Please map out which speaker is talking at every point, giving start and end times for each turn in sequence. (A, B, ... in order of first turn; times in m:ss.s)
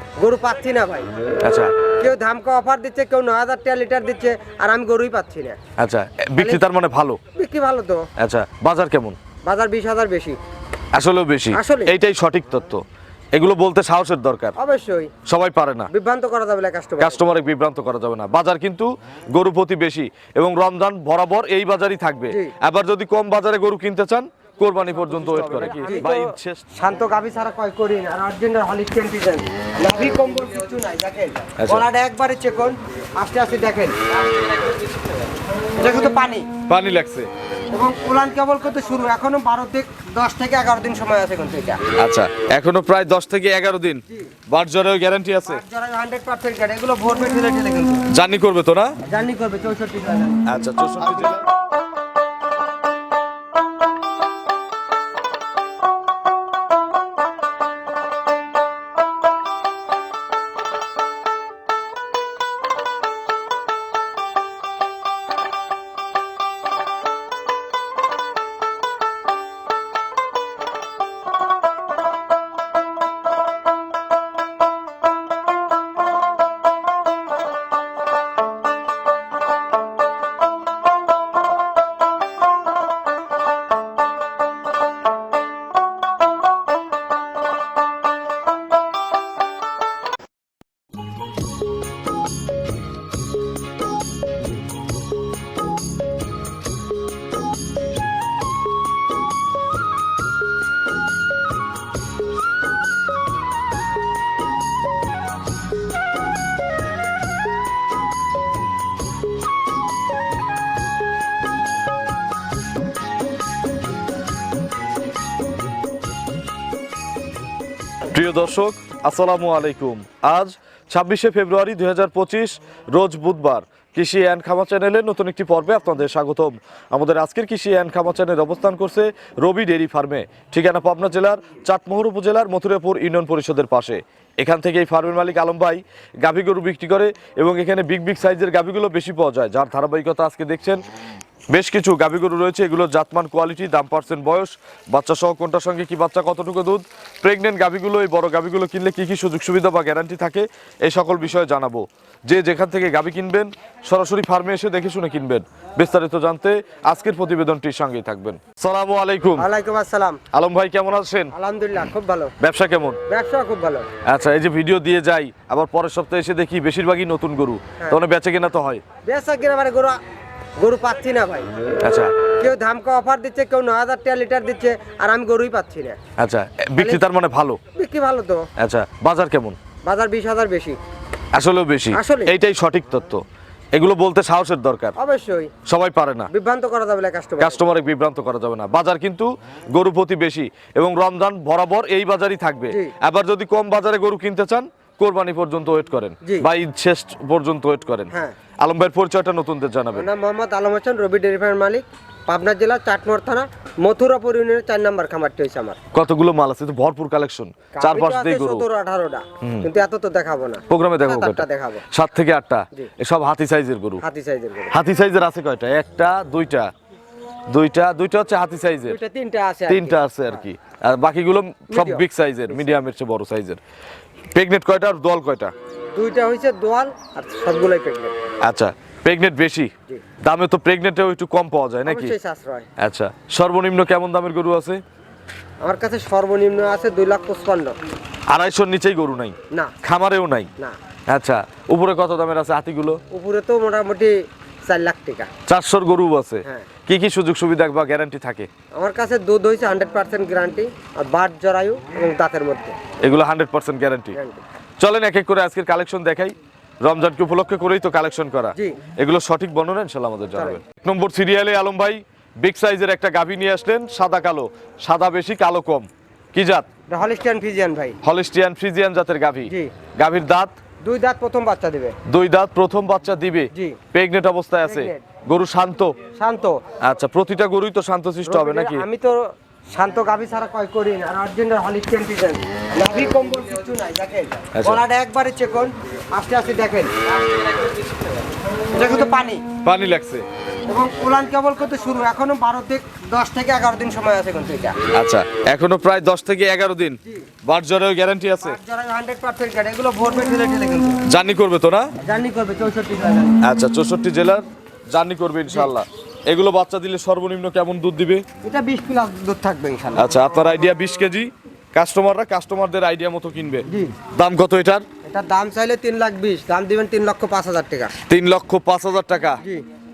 0:00.2-0:01.1 A
0:01.4-0:01.8 B
0:02.0-0:05.6 A
0:05.8-0:07.2 B
0:06.4-0:06.6 A
0:07.3-0:08.1 A
0:08.2-0:09.2 B
0:09.4-0:10.4 A
0:10.9-0:12.8 B
0:11.5-0:11.9 A
0:13.4-0:14.6 B
0:14.6-0:15.1 A
0:15.3-0:15.9 B
0:15.9-0:17.2 A
0:17.0-0:26.6 B
0:25.2-0:26.2 A
0:26.7-0:34.5 A
0:31.6-0:31.9 B
0:35.8-0:36.5 A
0:36.7-0:37.3 B
0:37.7-0:41.8 A
0:42.0-0:45.6 B
0:45.4-0:48.0 A
0:48.1-0:49.0 B
0:49.0-0:51.3 A
0:50.5-0:51.4 B
1:58.1-2:20.8 B
2:21.5-2:39.5 B
2:39.4-2:40.2 A
2:40.3-2:41.3 B
2:41.3-2:42.3 A
2:42.4-2:43.0 B
2:43.1-2:43.9 A
2:44.0-2:48.8 B
2:49.0-2:50.0 A
2:50.6-2:51.5 A
2:51.8-2:52.2 B
2:52.4-2:56.0 A
2:56.2-2:57.6 B
2:56.8-2:57.0 A
2:57.7-2:58.5 A
2:58.6-2:59.6 B
2:59.8-3:00.8 A
3:01.3-3:03.2 B
3:01.9-3:02.3 A
3:03.8-3:05.0 B
3:05.0-3:05.5 A
3:05.7-3:06.3 B
3:06.3-3:07.6 A
3:07.4-3:18.1 B
3:18.6-3:20.1 B
3:19.9-3:25.8 A
3:25.9-3:28.6 B
3:27.7-3:31.8 A
3:29.4-3:29.7 B
3:30.7-3:34.0 B
3:34.0-3:34.8 A
3:34.7-3:36.7 B
3:37.5-3:39.0 B
3:38.9-3:40.4 A
3:39.7-3:43.6 B
3:41.7-3:42.7 A
3:44.3-3:45.5 B
3:46.0-3:48.2 A
3:48.4-3:52.2 B
3:51.9-3:52.7 A
3:52.8-3:54.8 B
3:55.6-3:57.8 A
3:58.3-4:00.5 B
4:01.1-4:03.0 B
4:03.1-4:04.1 A
4:04.7-4:05.3 A
4:05.5-4:08.5 B
4:08.8-4:12.8 A
4:13.0-4:14.2 B
4:14.1-4:14.4 A
4:14.8-4:26.7 B
4:20.4-4:20.6 A
4:26.9-4:28.0 A
4:28.0-4:30.5 B
4:30.8-4:32.0 A
4:32.1-4:36.0 B
4:33.5-4:33.8 A
4:34.6-4:35.0 A
4:36.2-4:36.6 A
4:36.8-4:38.8 B
4:38.2-4:47.6 A
4:44.5-4:44.8 B
4:48.7-4:49.4 A
4:49.6-4:50.2 B
4:50.7-4:54.8 A
4:54.9-4:58.6 B
4:58.4-5:01.0 A
5:01.1-5:01.9 B
5:02.0-5:03.4 A
5:03.4-5:08.2 B
5:08.4-5:10.2 A
5:10.0-5:14.8 B
5:13.7-5:14.0 A
5:15.1-5:17.9 A
5:18.1-5:19.4 B